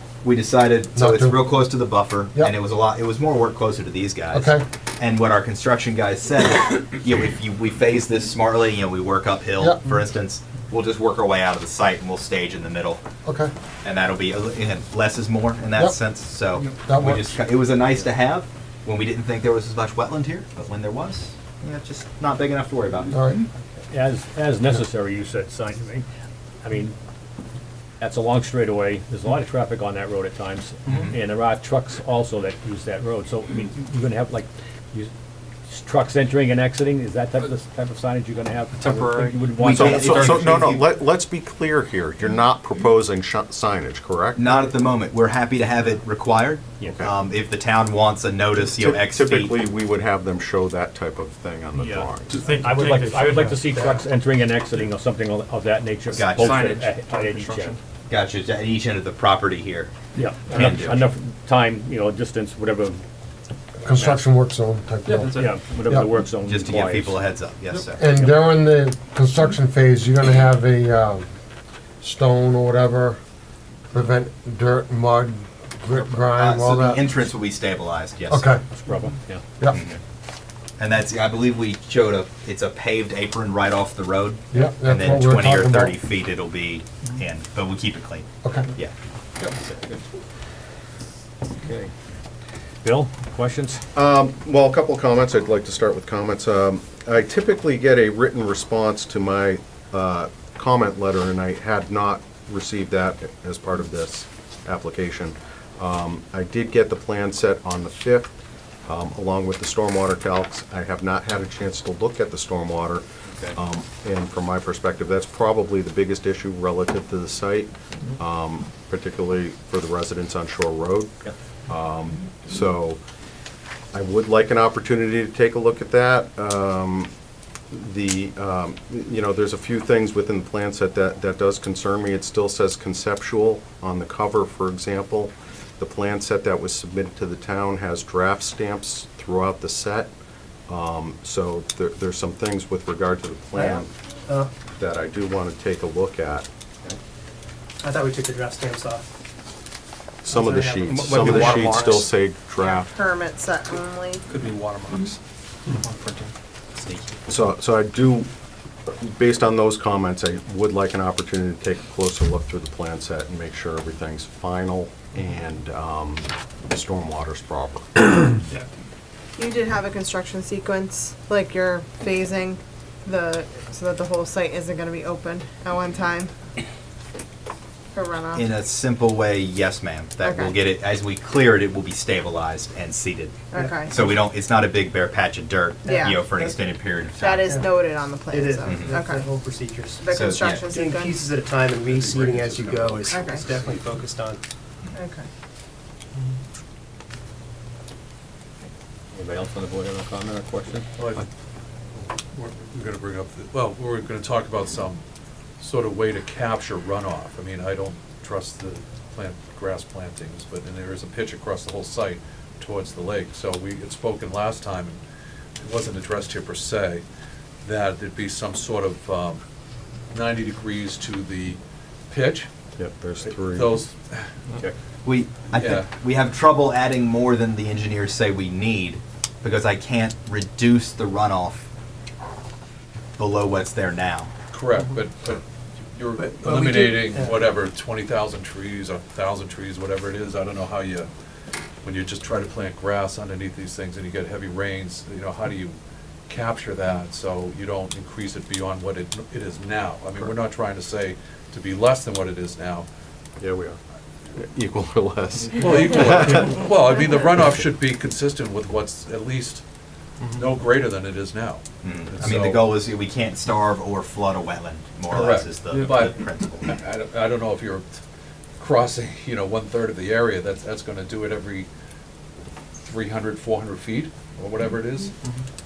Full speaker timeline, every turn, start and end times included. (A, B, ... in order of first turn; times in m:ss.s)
0:00.2-0:13.0 A
0:01.0-0:01.4 B
0:04.3-0:04.6 B
0:09.6-0:09.9 B
0:13.2-0:13.5 B
0:13.8-0:23.1 A
0:16.8-0:17.4 B
0:23.1-0:23.4 B
0:23.9-0:26.0 C
0:26.6-0:27.0 C
0:28.0-0:35.1 C
0:35.7-0:40.6 C
0:38.8-0:39.6 D
0:39.6-0:40.8 A
0:39.6-0:44.5 E
0:44.4-0:49.6 A
0:46.8-0:47.0 C
0:48.7-0:52.4 E
0:51.8-0:57.8 C
0:52.3-0:53.4 D
0:56.2-0:57.8 D
0:56.2-0:56.6 A
0:58.1-0:59.9 A
1:00.2-1:03.0 C
1:00.5-1:01.0 A
1:03.8-1:06.1 B
1:03.8-1:04.2 C
1:05.1-1:05.5 D
1:05.2-1:07.2 C
1:06.4-1:08.0 A
1:07.9-1:11.3 B
1:12.0-1:13.2 B
1:13.9-1:17.2 B
1:16.3-1:18.5 A
1:18.3-1:18.6 B
1:18.7-1:19.4 C
1:19.7-1:20.0 A
1:20.8-1:28.9 A
1:24.5-1:26.0 B
1:28.4-1:28.7 B
1:31.6-1:31.9 C
1:32.8-1:33.8 C
1:33.9-1:48.3 E
1:48.9-2:03.0 E
2:03.9-2:07.1 E
2:07.7-2:20.1 E
2:20.7-2:23.9 E
2:23.5-2:24.5 F
2:24.7-2:26.5 E
2:27.8-2:29.0 F
2:30.2-2:32.9 E
2:30.3-2:30.8 F
2:30.8-2:32.0 D
2:32.6-2:34.2 G
2:34.3-2:35.2 D
2:35.7-2:36.3 D
2:36.8-2:37.2 A
2:37.3-2:38.3 E
2:38.9-2:48.4 E
2:49.4-2:56.3 G
2:57.9-2:58.5 G
2:58.3-3:07.6 A
3:00.2-3:00.6 G
3:03.5-3:03.9 G
3:03.6-3:04.2 F
3:05.8-3:06.6 F
3:05.8-3:06.3 G
3:07.2-3:09.3 G
3:07.4-3:07.7 F
3:08.3-3:14.4 F
3:08.6-3:09.0 A
3:10.0-3:11.3 G
3:10.0-3:10.7 A
3:11.8-3:13.9 E
3:13.1-3:13.5 G
3:14.9-3:15.2 G
3:19.1-3:20.9 C
3:21.0-3:21.2 H
3:22.3-3:25.0 H
3:25.6-3:35.0 H
3:35.6-3:37.0 H
3:37.6-3:39.4 H
3:40.1-3:41.6 H
3:42.1-3:42.5 H
3:42.8-3:43.8 E
3:43.2-3:44.3 H
3:45.0-3:51.7 A
3:45.5-3:45.9 H
3:53.2-3:54.3 A
3:54.5-4:01.1 H
3:56.2-3:57.4 F
4:01.8-4:05.8 H
4:06.3-4:12.9 H
4:13.4-4:13.8 E
4:14.3-4:16.5 E
4:15.6-4:19.6 H
4:20.3-4:22.7 H
4:21.8-4:26.7 A
4:25.1-4:27.9 H
4:25.7-4:26.0 D
4:28.6-4:31.7 H
4:32.8-4:35.2 H